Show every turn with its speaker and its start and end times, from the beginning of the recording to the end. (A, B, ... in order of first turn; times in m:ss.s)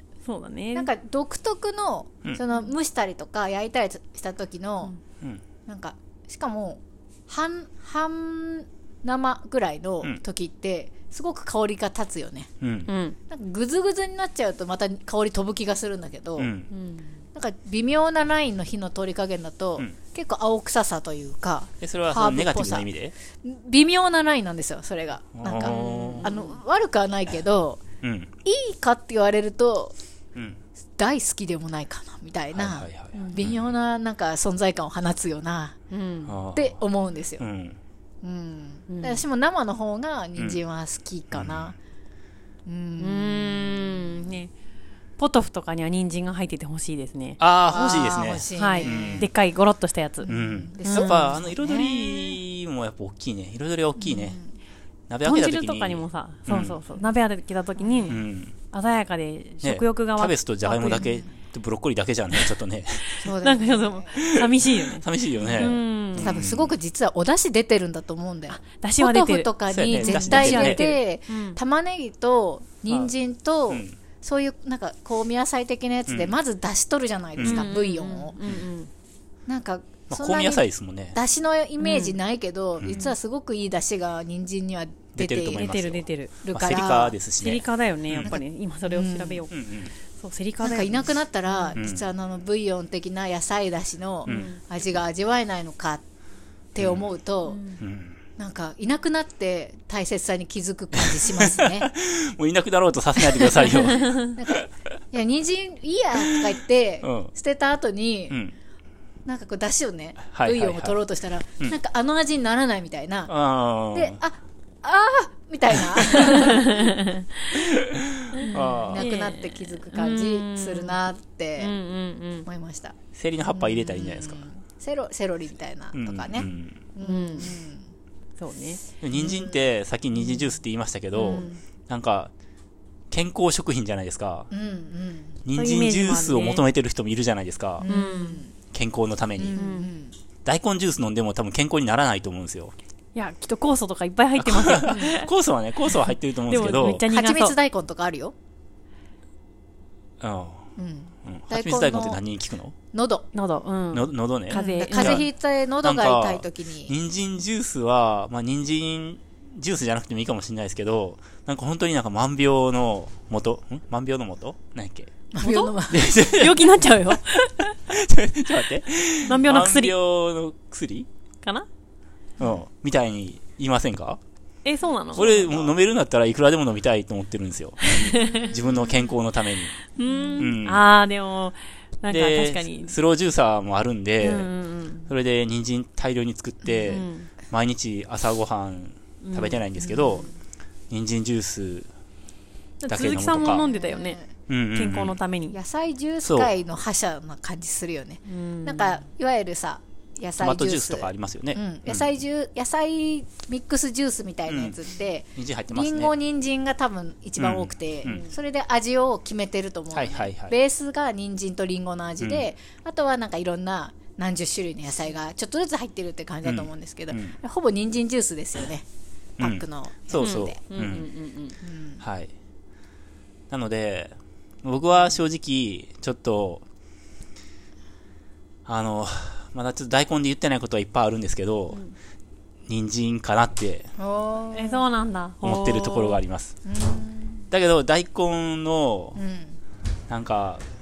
0:00.2-0:00.9 A
0:00.7-0:04.9 B
0:05.7-0:12.5 B
0:12.6-0:12.9 C
0:12.9-0:13.2 A
0:13.3-0:16.5 B
0:16.4-0:16.7 C
0:16.7-0:17.1 A
0:17.3-0:22.9 B
0:21.8-0:23.1 C
0:23.4-0:27.8 B
0:25.4-0:26.3 C
0:25.6-0:26.6 A
0:28.0-0:28.3 C
0:28.4-0:29.9 B
0:30.3-0:30.6 C
0:31.0-0:35.8 B
0:32.5-0:33.7 C
0:35.9-0:36.3 A
0:36.3-0:36.8 C
0:36.5-0:37.4 B
0:37.4-0:37.8 C
0:38.2-0:41.7 B
0:38.9-0:39.2 A
0:41.3-0:41.7 C
0:42.6-0:44.1 B
0:43.0-0:44.5 A
0:45.2-0:50.3 A
0:47.4-0:49.3 C
0:47.7-0:49.3 B
0:50.2-0:52.4 B
0:50.3-0:54.4 C
0:50.8-0:51.2 A
0:54.0-0:54.5 B
0:55.1-0:56.8 C
0:55.2-0:58.2 A
0:57.8-0:58.2 B
0:58.1-0:58.5 C
0:58.7-1:01.1 A
0:59.6-1:03.2 C
1:00.9-1:01.2 B
1:03.2-1:04.1 B
1:03.4-1:05.0 A
1:04.1-1:06.7 C
1:05.4-1:18.4 B
1:05.6-1:06.4 A
1:08.5-1:11.6 A
1:09.7-1:10.9 C
1:13.7-1:14.0 C
1:16.1-1:16.3 C
1:17.4-1:17.7 C
1:17.4-1:18.9 A
1:19.5-1:25.7 B
1:20.1-1:21.2 C
1:21.8-1:22.2 A
1:25.2-1:28.4 C
1:25.6-1:26.3 A
1:26.4-1:27.2 B
1:27.4-1:29.5 A
1:28.2-1:29.4 B
1:29.5-1:29.9 C
1:30.2-1:31.8 A
1:30.6-1:36.0 B
1:31.8-1:32.0 C
1:34.2-1:34.6 A
1:36.7-1:37.6 B
1:36.8-1:37.1 C
1:37.5-1:37.8 A
1:37.8-1:38.2 C
1:38.4-1:41.9 B
1:40.9-1:44.6 C
1:43.2-1:48.4 B
1:44.0-1:44.3 A
1:46.1-1:47.3 C
1:49.2-1:53.3 B
1:50.3-1:51.0 C
1:53.3-1:54.2 C
1:53.9-1:56.9 B
1:55.7-1:56.4 C
1:56.4-1:57.6 A
1:57.5-1:59.1 C
1:58.3-2:01.0 A
1:58.5-2:01.8 B
2:01.6-2:02.5 A
2:02.4-2:07.8 B
2:03.1-2:04.4 C
2:05.9-2:06.8 C
2:07.0-2:07.5 A
2:08.4-2:08.8 A
2:09.0-2:12.3 C
2:09.1-2:09.6 B
2:11.1-2:11.6 A
2:11.2-2:11.5 B
2:13.1-2:14.5 C
2:14.5-2:15.4 B
2:15.4-2:17.8 C
2:15.5-2:16.6 A
2:17.8-2:18.5 B
2:17.8-2:18.4 A
2:18.7-2:19.6 C
2:19.4-2:20.1 B
2:19.6-2:19.9 A
2:20.4-2:22.7 C
2:23.1-2:25.3 A
2:24.4-2:27.0 C
2:26.5-2:27.5 A
2:27.0-2:28.3 B
2:30.2-2:30.6 C
2:30.8-2:32.2 B
2:31.2-2:32.7 C
2:32.9-2:33.3 B
2:33.3-2:35.2 A
2:33.9-2:35.3 C
2:34.5-2:36.9 B
2:35.8-2:45.1 C
2:45.3-2:46.1 B
2:45.4-2:47.7 A
2:45.9-2:47.2 C
2:47.7-2:51.1 C
2:49.2-2:49.9 A
2:52.4-2:54.2 C
2:54.6-2:55.6 A
2:55.1-2:59.7 C
2:55.3-2:55.5 B
2:57.8-2:58.6 A
3:00.0-3:03.0 A
3:00.0-3:00.5 B
3:00.4-3:00.8 C
3:02.1-3:04.5 C
3:04.2-3:05.1 A
3:05.1-3:10.3 C
3:06.9-3:07.3 A
3:09.2-3:09.6 A
3:10.0-3:10.2 B
3:10.9-3:11.9 C
3:12.8-3:14.2 A
3:12.9-3:13.6 C
3:13.4-3:14.3 B
3:14.5-3:15.2 C
3:14.7-3:15.6 A
3:15.5-3:38.8 B
3:16.2-3:16.5 C
3:18.2-3:19.0 A
3:20.4-3:22.1 C
3:24.5-3:24.8 C
3:25.4-3:26.1 C
3:27.4-3:28.2 C
3:28.1-3:28.3 A
3:29.9-3:30.6 C
3:32.2-3:32.4 C
3:36.4-3:37.3 C
3:39.4-3:40.6 B
3:39.4-3:41.1 C
3:40.2-3:41.6 A
3:41.6-3:42.0 B
3:42.0-3:42.3 C
3:43.5-3:46.6 C
3:48.6-3:51.8 C
3:52.7-3:53.9 C
3:54.0-3:54.8 B
3:54.5-3:56.2 A
3:55.4-3:56.6 C
3:56.6-3:57.4 B
3:57.5-3:59.2 C
3:59.2-3:59.6 B
4:00.1-4:00.6 C